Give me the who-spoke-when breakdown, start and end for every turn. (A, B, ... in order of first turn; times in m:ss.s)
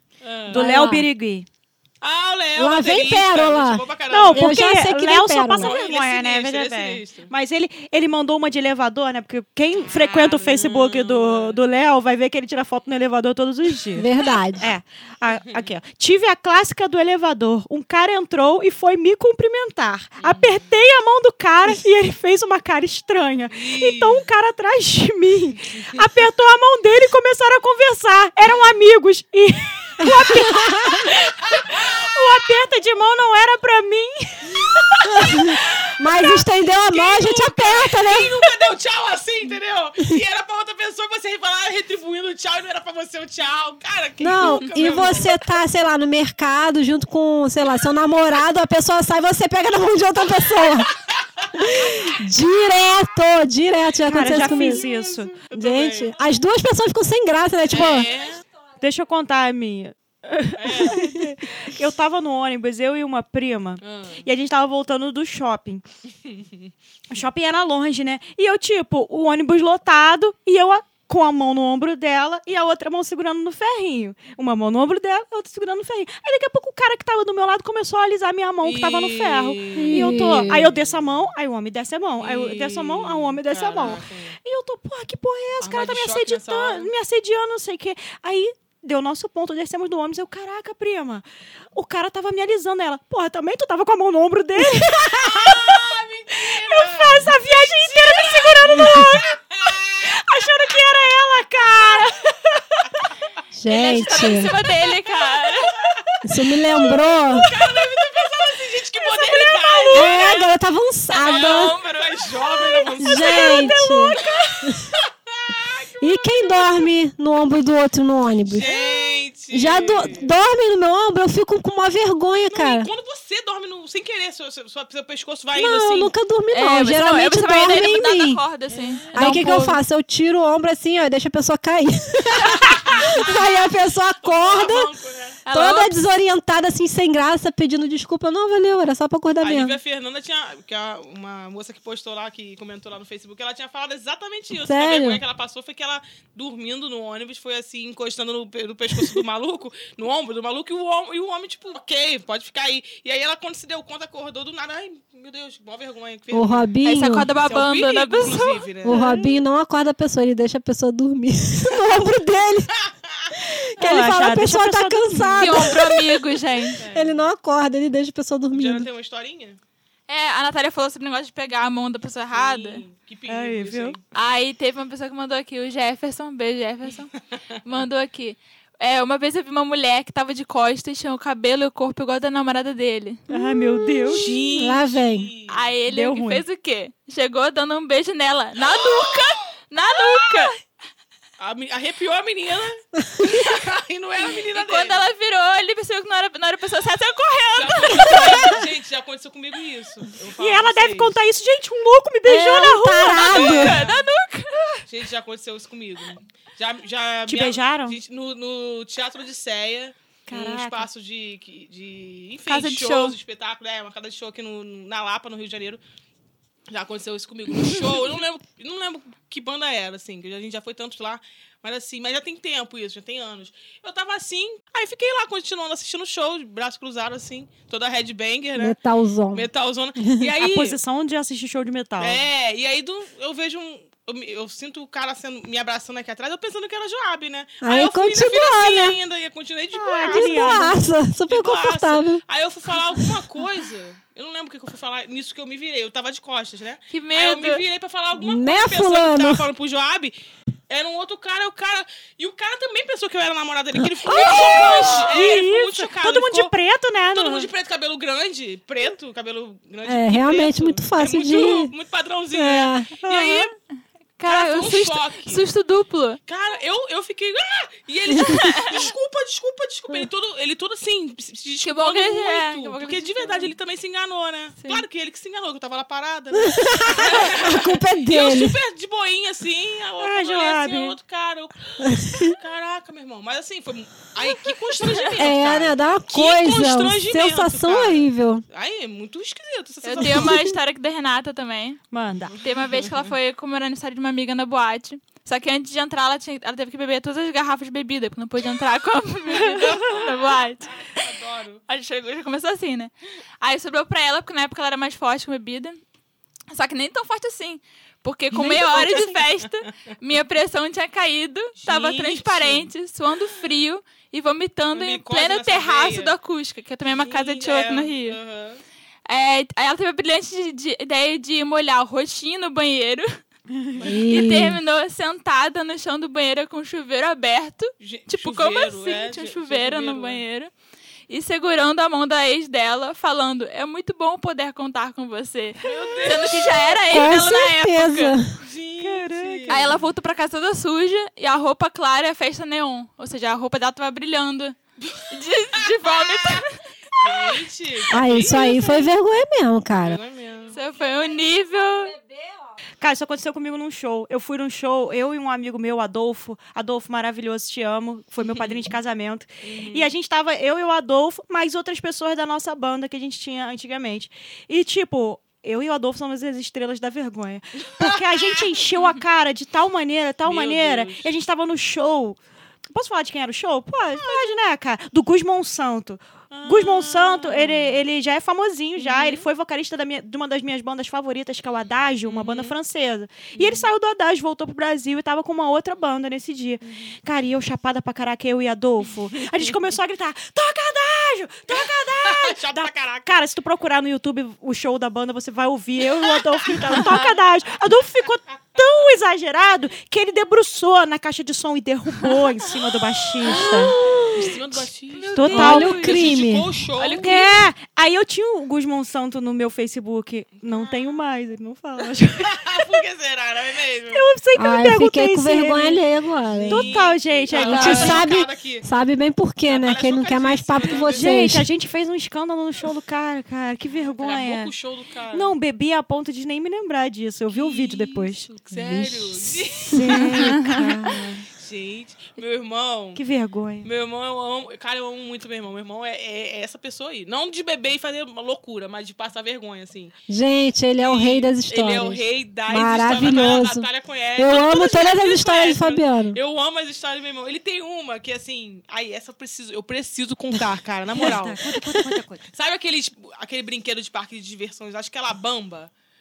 0:00.2-0:00.7 A
0:00.5-0:01.5 B
0:00.5-0:01.1 C
0:02.0-0:04.7 A
0:02.6-0:05.7 C
0:04.1-0:36.4 B
0:05.6-0:07.3 A
0:09.8-0:11.6 A
0:14.0-0:14.7 C
0:20.2-0:20.6 A
0:23.5-0:24.2 A
0:30.0-0:31.1 C
0:31.7-0:32.0 A
0:34.6-0:35.1 A
0:35.1-0:38.4 C
0:36.9-0:45.4 A
0:44.2-0:50.9 C
0:51.4-0:52.1 A
0:51.5-0:54.8 C
0:54.1-0:55.3 B
0:54.2-0:56.1 A
0:55.5-0:58.1 C
0:57.7-0:58.4 A
0:58.8-1:05.8 B
1:00.6-1:01.2 A
1:03.8-1:04.2 A
1:06.2-1:06.7 A
1:07.1-1:39.4 B
1:18.6-1:20.9 A
1:19.7-1:20.6 C
1:22.2-1:24.4 A
1:25.6-1:26.9 A
1:35.1-1:38.8 A
1:38.7-1:39.1 C
1:39.4-1:40.2 A
1:40.0-1:42.3 B
1:43.6-1:44.5 C
1:43.7-1:45.9 D
1:44.2-1:46.1 A
1:46.2-1:47.6 C
1:46.8-1:50.5 A
1:49.0-1:50.4 B
1:49.9-1:51.8 C
1:51.1-1:52.4 D
1:51.1-1:56.9 A
1:52.8-1:54.6 B
1:53.0-1:54.9 C
1:56.0-2:02.9 C
1:58.5-2:00.3 A
2:02.5-2:06.1 A
2:05.5-2:08.4 C
2:06.5-2:09.8 D
2:08.7-2:09.4 A
2:09.2-2:14.9 C
2:12.5-2:13.6 A
2:14.2-2:15.4 A
2:15.5-2:15.9 D
2:15.5-2:19.8 C
2:19.4-2:36.7 A
2:24.5-2:25.2 C
2:36.3-2:37.3 C
2:36.8-2:38.9 D
2:37.4-2:39.3 A
2:38.8-2:42.7 C
2:42.9-2:43.3 A
2:43.5-2:46.0 C
2:43.8-2:45.7 B
2:45.4-2:46.8 D
2:46.8-2:47.3 A
2:46.9-2:48.9 C
2:48.5-2:49.6 A
2:50.1-2:52.8 D
2:52.3-2:54.0 A
2:53.3-2:54.0 B
2:54.1-2:57.1 D
2:57.6-3:03.2 D
3:03.3-3:04.4 B
3:03.3-3:05.3 C
3:04.1-3:05.6 A
3:05.5-3:10.6 D
3:05.9-3:06.4 B
3:08.7-3:09.3 A
3:10.0-3:10.5 A
3:11.4-3:15.0 A
3:13.1-3:13.5 C
3:14.2-3:18.6 D
3:17.6-3:21.2 A
3:20.4-3:23.7 B
3:22.3-3:23.9 C
3:23.1-3:24.0 A
3:23.2-3:24.8 D
3:24.9-3:35.8 A
3:27.3-3:28.0 B
3:30.3-3:30.9 B
3:32.5-3:33.2 D
3:36.7-3:48.8 A
3:48.6-3:49.5 C
3:49.3-3:50.8 A
3:50.0-3:50.3 C
3:50.4-3:52.2 B
3:52.0-4:00.7 A
3:57.6-3:59.0 C
3:59.7-4:00.8 B
4:00.1-4:02.2 C
4:01.3-4:10.2 A
4:06.9-4:07.6 D
4:08.1-4:09.5 C
4:10.7-4:16.5 A
4:13.8-4:15.2 C
4:14.7-4:17.5 B
4:17.1-4:23.5 A
4:19.8-4:21.7 C
4:22.3-4:23.0 C
4:23.0-4:23.5 B
4:24.2-4:26.2 D
4:24.3-4:25.4 A
4:26.3-4:50.4 A
4:28.2-4:28.9 D
4:31.6-4:33.5 D
4:36.4-4:38.6 C
4:40.0-4:41.0 B
4:41.8-4:42.4 C
4:45.2-4:48.4 C
4:49.8-4:51.8 D
4:50.0-4:50.4 C
4:51.9-4:52.4 B
4:52.3-5:01.0 D
4:59.4-5:01.6 A
5:01.7-5:05.8 D
5:06.5-5:18.2 D
5:08.3-5:09.5 A
5:11.6-5:12.7 A
5:14.7-5:16.1 A
5:16.9-5:18.6 A
5:19.1-5:23.2 D
5:23.8-5:24.4 A
5:23.8-5:24.6 C
5:24.1-5:30.5 D
5:27.8-5:30.2 A
5:31.1-5:38.2 D
5:35.6-5:37.1 A
5:36.9-5:38.4 C
5:38.4-5:39.8 A
5:38.8-5:39.8 B
5:39.5-5:44.6 D
5:45.1-5:46.6 D
5:45.6-5:46.4 A
5:47.0-5:48.8 A
5:47.9-5:50.0 C
5:49.7-5:50.6 A
5:50.5-5:52.0 D
5:52.0-5:52.3 C
5:52.8-6:12.2 B
5:58.3-5:58.6 A
5:59.4-5:59.9 A
6:07.8-6:08.4 A
6:10.2-6:11.1 A
6:12.7-6:43.8 B
6:14.0-6:14.4 A
6:16.3-6:17.8 A
6:18.8-6:19.2 A
6:22.0-6:22.6 A
6:23.4-6:23.7 A
6:31.6-6:33.1 A
6:36.2-6:37.1 A
6:43.2-6:44.4 C
6:43.3-6:47.3 A
6:44.9-6:46.0 D
6:45.2-6:45.8 B
6:45.2-6:46.6 C
6:46.8-6:47.4 D
6:47.0-6:52.7 B
6:50.5-6:50.8 A
6:52.2-6:54.0 A
6:53.9-6:55.8 B
6:54.4-6:56.7 C
6:56.3-6:58.7 A
6:56.5-6:58.1 B
6:57.3-6:58.0 D
6:57.4-7:01.4 C
6:59.5-7:01.2 A
7:00.9-7:04.5 B
7:04.0-7:05.3 A
7:05.1-7:08.3 B
7:07.3-7:13.0 A
7:08.5-7:09.2 C
7:09.7-7:11.2 B
7:10.1-7:10.7 D
7:13.0-7:13.7 B
7:13.6-7:20.0 A
7:20.1-7:26.2 C
7:20.8-7:35.7 A
7:30.9-7:32.2 B